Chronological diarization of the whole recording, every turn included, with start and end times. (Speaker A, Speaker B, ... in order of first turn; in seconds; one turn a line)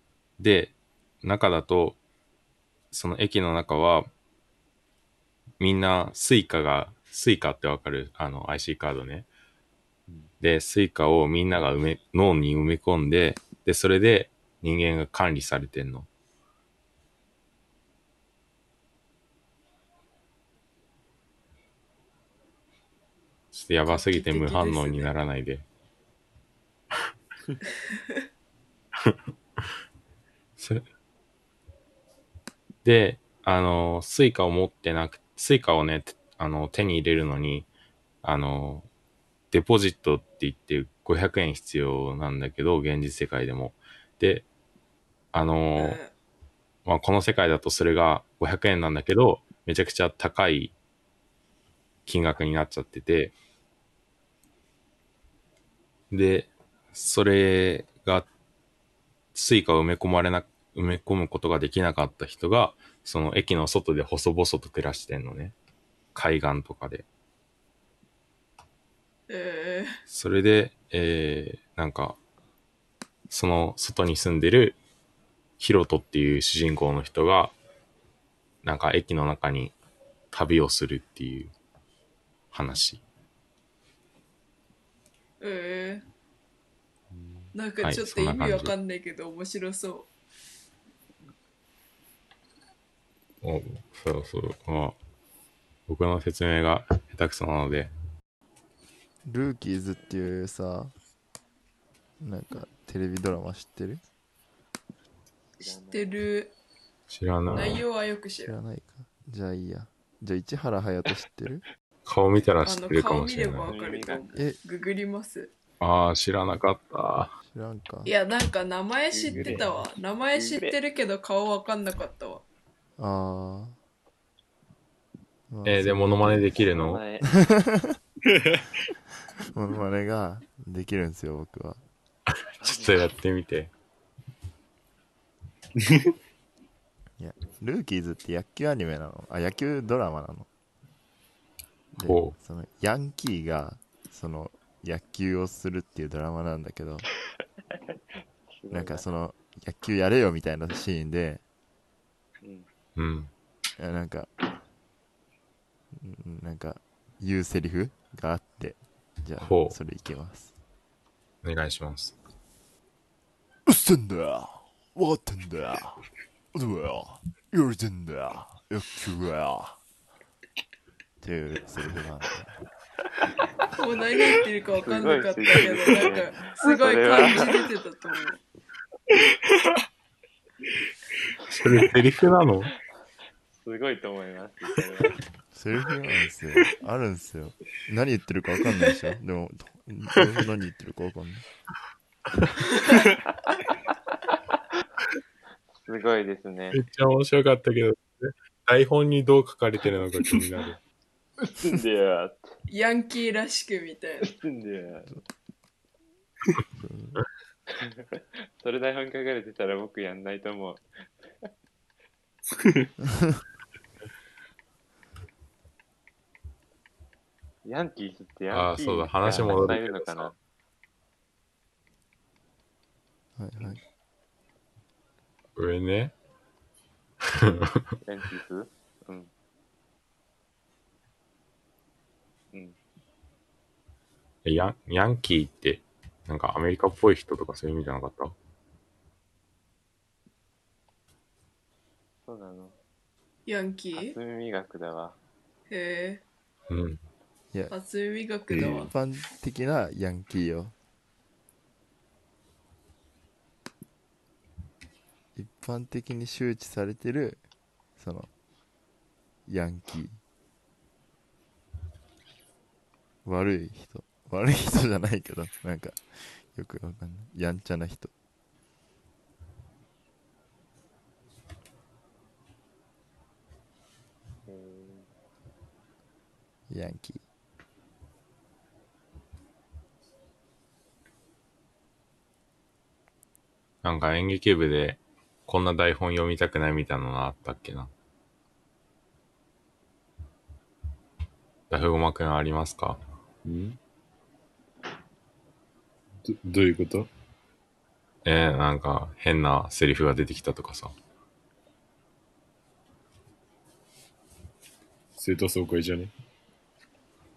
Speaker A: 0.4-2.0
Speaker A: 2.9-4.1
Speaker A: 5.6-9.3
Speaker A: 10.4-16.1
Speaker A: 23.5-25.6
Speaker B: 23.9-25.1
Speaker A: 30.6-30.8
Speaker A: 32.8-37.7
Speaker A: 38.2-38.9
Speaker A: 39.5-44.5
Speaker A: 45.3-46.0
Speaker B: 45.8-46.1
Speaker A: 46.8-50.7
Speaker A: 52.0-53.4
Speaker A: 56.1-58.3
Speaker A: 59.3-65.5
Speaker A: 66.1-67.0
Speaker B: 69.3-70.0
Speaker A: 70.1-72.2
Speaker A: 73.3-74.8
Speaker A: 75.6-77.5
Speaker A: 78.6-79.7
Speaker A: 80.3-81.5
Speaker A: 82.5-83.0
Speaker B: 85.4-86.0
Speaker C: 87.1-87.5
Speaker B: 87.5-90.1
Speaker A: 87.8-88.7
Speaker A: 93.4-95.0
Speaker A: 95.9-97.9
Speaker D: 99.2-100.9
Speaker D: 102.2-104.0
Speaker E: 105.6-106.2
Speaker B: 105.9-106.5
Speaker A: 107.1-107.8
Speaker B: 107.5-108.5
Speaker D: 108.4-111.6
Speaker A: 112.0-113.7
Speaker B: 112.6-115.5
Speaker E: 113.7-114.4
Speaker A: 115.8-117.3
Speaker D: 117.4-118.1
Speaker B: 118.0-122.4
Speaker E: 119.1-119.7
Speaker C: 119.3-119.7
Speaker E: 120.3-120.8
Speaker D: 123.0-123.8
Speaker D: 125.5-126.6
Speaker A: 125.6-127.0
Speaker E: 126.6-127.3
Speaker D: 127.2-128.0
Speaker C: 128.2-128.7
Speaker D: 129.4-131.8
Speaker A: 132.3-133.7
Speaker E: 132.6-133.1
Speaker C: 135.8-136.1
Speaker D: 137.2-140.5
Speaker A: 141.9-142.3
Speaker D: 142.0-147.1
Speaker E: 148.6-149.1
Speaker D: 148.7-151.4
Speaker E: 152.4-152.7
Speaker A: 152.9-153.3
Speaker D: 153.8-154.3
Speaker D: 155.9-160.5
Speaker A: 159.4-159.8
Speaker A: 161.4-162.1
Speaker D: 163.7-166.0
Speaker D: 166.5-169.8
Speaker D: 171.2-172.5
Speaker B: 173.7-178.4
Speaker E: 174.8-177.6
Speaker A: 181.5-182.7
Speaker E: 183.6-185.2
Speaker D: 185.5-191.4
Speaker E: 195.8-196.8
Speaker A: 196.7-200.8
Speaker E: 201.5-202.6
Speaker B: 202.7-204.3
Speaker E: 204.2-205.2
Speaker D: 206.7-207.2
Speaker E: 207.7-211.5
Speaker C: 212.5-212.9
Speaker E: 217.6-220.3
Speaker A: 218.5-220.2
Speaker C: 219.3-219.7
Speaker D: 223.4-223.8
Speaker A: 225.6-226.1
Speaker A: 227.3-227.8
Speaker E: 228.0-229.3
Speaker A: 234.4-238.3
Speaker E: 242.2-242.8
Speaker B: 243.4-244.2
Speaker E: 243.9-245.2
Speaker B: 245.7-246.2
Speaker A: 246.7-247.0
Speaker B: 247.7-248.9
Speaker C: 248.5-248.9
Speaker D: 248.8-250.7
Speaker D: 255.3-257.4
Speaker D: 258.0-258.3
Speaker D: 259.5-260.2
Speaker D: 263.2-268.1
Speaker E: 274.5-275.1
Speaker D: 276.7-277.2
Speaker A: 283.8-287.9
Speaker A: 291.7-293.0
Speaker C: 293.4-293.8
Speaker C: 296.2-297.1
Speaker A: 298.2-300.9
Speaker C: 305.1-306.1